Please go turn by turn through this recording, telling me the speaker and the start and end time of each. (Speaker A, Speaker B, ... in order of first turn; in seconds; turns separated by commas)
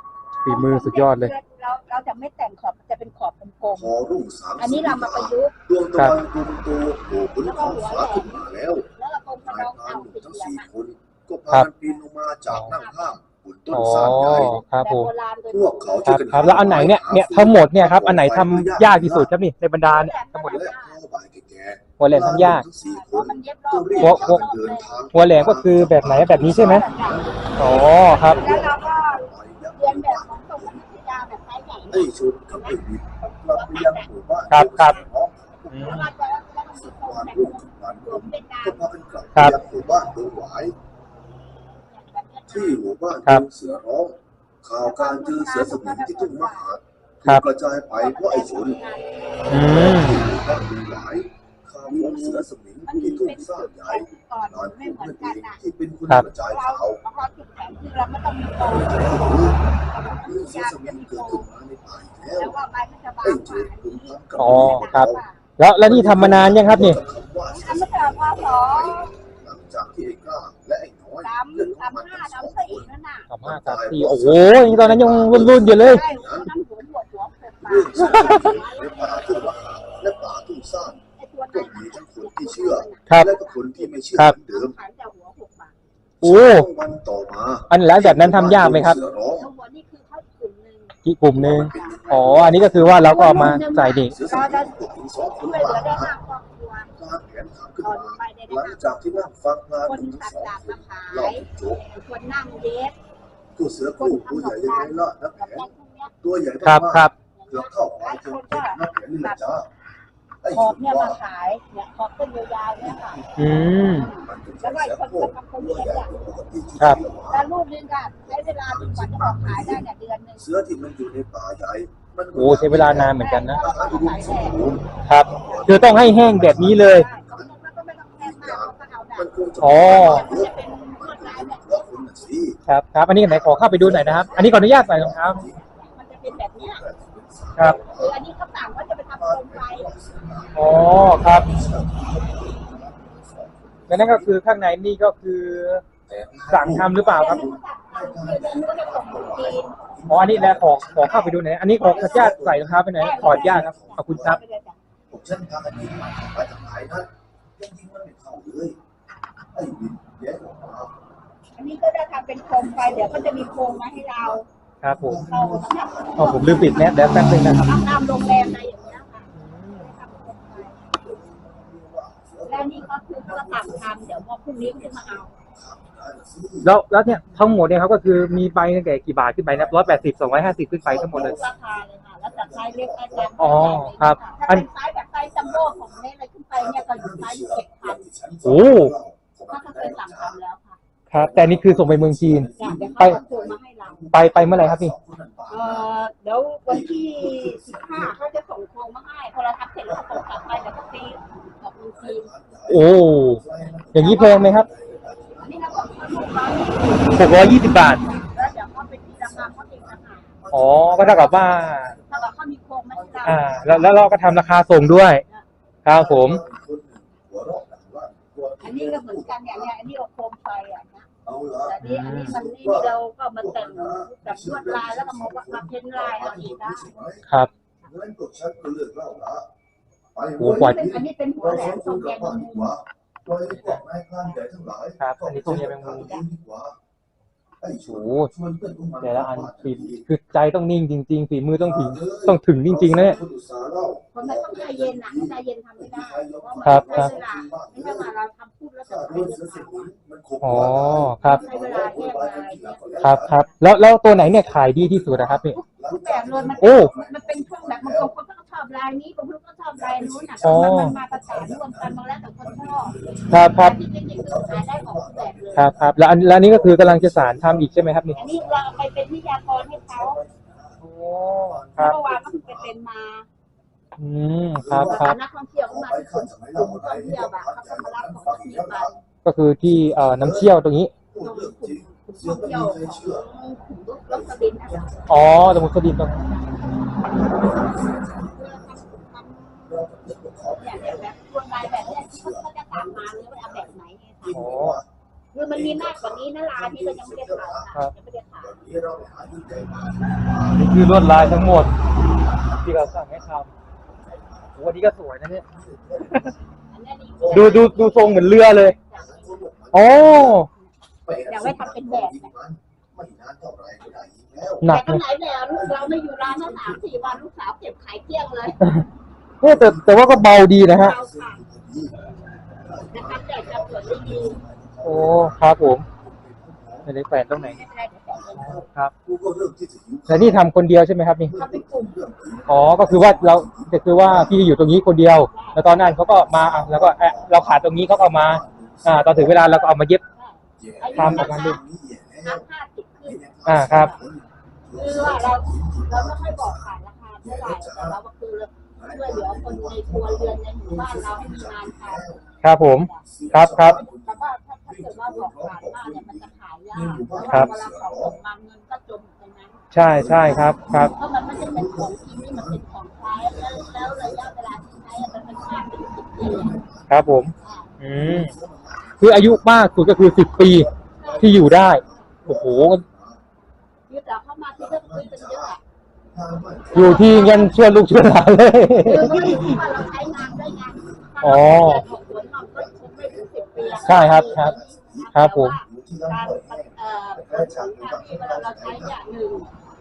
Speaker A: 0.4-3.9, Speaker B: 0.4-1.3, Speaker C: 3.7-8.9, Speaker A: 4.6-5.5, Speaker A: 7.4-8.4, Speaker A: 9.0-10.7, Speaker C: 9.4-14.6, Speaker B: 12.5-12.7, Speaker A: 12.6-13.1, Speaker B: 13.7-15.1, Speaker A: 14.0-16.8, Speaker C: 15.5-19.3, Speaker B: 16.1-20.6, Speaker A: 19.8-21.0, Speaker C: 20.3-30.9, Speaker B: 22.0-22.6, Speaker A: 22.1-25.1, Speaker B: 24.0-24.4, Speaker B: 25.1-26.9, Speaker A: 26.0-34.1, Speaker B: 27.6-28.4, Speaker C: 31.9-36.2, Speaker B: 34.5-35.0, Speaker B: 35.7-36.1, Speaker A: 35.8-38.8, Speaker C: 36.7-40.8, Speaker A: 41.8-42.8, Speaker C: 42.5-48.8, Speaker A: 44.8-46.7, Speaker A: 47.9-49.6, Speaker B: 49.5-50.2, Speaker C: 49.5-57.0, Speaker A: 51.9-55.6, Speaker A: 56.4-61.5, Speaker C: 58.6-59.6, Speaker C: 60.2-62.6, Speaker A: 62.4-65.4, Speaker C: 63.2-65.2, Speaker B: 64.4-67.0, Speaker C: 65.8-72.9, Speaker A: 67.5-69.1, Speaker A: 71.2-73.3, Speaker B: 73.3-76.0, Speaker C: 73.4-76.5, Speaker A: 75.5-79.5, Speaker C: 77.6-84.8, Speaker B: 78.0-78.5, Speaker A: 81.2-85.7, Speaker C: 86.2-89.5, Speaker B: 86.2-86.7, Speaker B: 87.7-89.0, Speaker A: 89.1-92.4, Speaker B: 91.0-94.1, Speaker C: 91.4-96.1, Speaker A: 92.9-94.8, Speaker A: 95.4-96.9, Speaker C: 96.9-101.9, Speaker A: 97.8-99.3, Speaker A: 99.8-103.0, Speaker C: 103.5-105.7, Speaker A: 104.0-106.1, Speaker C: 106.2-109.7, Speaker B: 106.6-107.1, Speaker A: 107.3-109.5, Speaker C: 110.4-111.2, Speaker A: 110.5-116.3, Speaker C: 112.8-117.5, Speaker B: 113.4-114.1, Speaker A: 117.3-120.5, Speaker C: 118.2-119.8, Speaker C: 120.4-127.5, Speaker B: 122.3-123.6, Speaker A: 123.0-132.3, Speaker B: 125.0-127.1, Speaker C: 128.2-132.6, Speaker B: 129.6-130.2, Speaker B: 132.7-135.4, Speaker C: 133.1-135.7, Speaker A: 134.3-136.8, Speaker C: 136.2-138.2, Speaker A: 137.9-139.9, Speaker C: 139.1-144.4, Speaker B: 140.5-141.5, Speaker B: 143.9-145.8, Speaker C: 146.1-154.4, Speaker B: 146.5-147.4, Speaker A: 146.8-149.7, Speaker B: 150.1-154.4, Speaker A: 151.0-154.8, Speaker C: 155.1-158.8, Speaker C: 159.5-160.9, Speaker A: 161.6-164.4, Speaker C: 162.4-169.0, Speaker B: 164.8-165.2, Speaker A: 165.2-170.9, Speaker B: 166.2-167.7, Speaker B: 169.3-169.9, Speaker C: 170.2-176.8, Speaker A: 172.4-175.3, Speaker B: 176.6-181.4, Speaker C: 179.5-183.9, Speaker A: 181.1-188.0, Speaker B: 183.4-184.6, Speaker C: 185.2-190.4, Speaker B: 188.4-188.9, Speaker A: 189.5-190.8, Speaker B: 191.1-193.2, Speaker C: 191.1-196.1, Speaker A: 192.6-194.1, Speaker B: 194.1-194.9, Speaker A: 195.5-202.3, Speaker C: 196.7-198.2, Speaker C: 199.8-200.9, Speaker C: 201.7-208.6, Speaker B: 202.7-203.4, Speaker A: 203.8-204.6, Speaker B: 203.9-204.7, Speaker A: 205.4-214.1, Speaker B: 207.2-208.0, Speaker C: 209.2-212.3, Speaker B: 210.5-211.9, Speaker C: 212.9-215.2, Speaker B: 213.2-215.2, Speaker B: 215.8-216.4, Speaker C: 215.9-219.8, Speaker A: 218.6-221.1, Speaker C: 221.2-227.2, Speaker A: 221.6-226.9, Speaker B: 221.8-222.3, Speaker C: 227.8-229.5, Speaker C: 230.1-236.8, Speaker B: 230.4-230.8, Speaker A: 230.5-232.7, Speaker B: 233.5-233.8, Speaker A: 234.2-234.5, Speaker B: 235.0-236.2, Speaker C: 237.6-240.1, Speaker B: 237.8-238.3, Speaker B: 239.0-243.2, Speaker C: 241.6-248.1, Speaker A: 244.1-249.9, Speaker B: 246.6-247.1, Speaker C: 248.8-258.1, Speaker B: 250.4-251.4, Speaker A: 251.2-253.6, Speaker B: 253.0-255.6, Speaker A: 255.6-262.9, Speaker B: 256.6-256.9, Speaker C: 259.7-270.8, Speaker B: 260.4-260.9, Speaker B: 263.3-263.8, Speaker A: 263.5-265.8, Speaker B: 265.6-268.1, Speaker A: 268.1-270.2, Speaker B: 270.8-271.9, Speaker C: 271.3-272.8, Speaker A: 271.8-273.3, Speaker B: 274.0-275.2, Speaker C: 274.5-279.0, Speaker A: 274.7-278.9, Speaker B: 279.2-280.9, Speaker C: 279.6-283.3, Speaker A: 281.2-284.9, Speaker C: 284.0-285.8, Speaker B: 285.1-286.3, Speaker C: 287.2-289.1, Speaker A: 288.2-289.9, Speaker C: 289.6-294.9, Speaker A: 290.6-294.5, Speaker B: 294.3-294.8, Speaker A: 295.3-298.5, Speaker C: 295.5-297.7, Speaker C: 298.4-303.3, Speaker B: 300.5-301.7, Speaker B: 302.6-303.5, Speaker C: 303.9-306.5, Speaker B: 304.6-305.5, Speaker A: 306.7-310.7, Speaker C: 307.2-310.4, Speaker B: 307.3-308.8, Speaker B: 309.7-310.5, Speaker C: 311.1-314.8, Speaker A: 311.3-312.3, Speaker B: 314.6-315.0, Speaker A: 314.6-318.6, Speaker C: 315.5-317.2, Speaker B: 318.6-318.8, Speaker B: 319.4-321.0, Speaker C: 319.4-322.0, Speaker A: 320.7-321.4, Speaker C: 322.5-330.5, Speaker A: 322.9-324.4, Speaker B: 324.8-325.9, Speaker B: 326.9-327.6, Speaker A: 327.4-328.5, Speaker B: 328.4-328.9, Speaker B: 330.1-331.3, Speaker C: 331.2-334.5, Speaker A: 331.3-332.0, Speaker B: 332.5-340.0, Speaker A: 335.1-335.9, Speaker C: 335.6-339.6, Speaker A: 340.1-341.6, Speaker C: 340.6-342.4, Speaker B: 340.9-341.6, Speaker A: 342.2-344.0, Speaker C: 343.0-348.0, Speaker B: 343.4-343.9, Speaker A: 344.7-352.2, Speaker C: 348.8-352.2, Speaker B: 352.4-353.8, Speaker C: 353.0-358.2, Speaker A: 353.6-359.7, Speaker B: 359.7-360.9, Speaker C: 359.8-373.2, Speaker A: 360.9-366.6, Speaker B: 366.9-368.3, Speaker A: 367.4-367.7, Speaker B: 369.0-370.7, Speaker A: 371.0-372.1, Speaker B: 371.2-372.8, Speaker A: 373.9-375.6, Speaker C: 374.5-375.6, Speaker C: 376.1-377.5, Speaker A: 376.7-377.6, Speaker B: 376.7-379.6, Speaker C: 378.8-389.0, Speaker A: 378.8-389.5, Speaker B: 381.2-381.8, Speaker B: 383.8-384.6, Speaker B: 385.1-385.6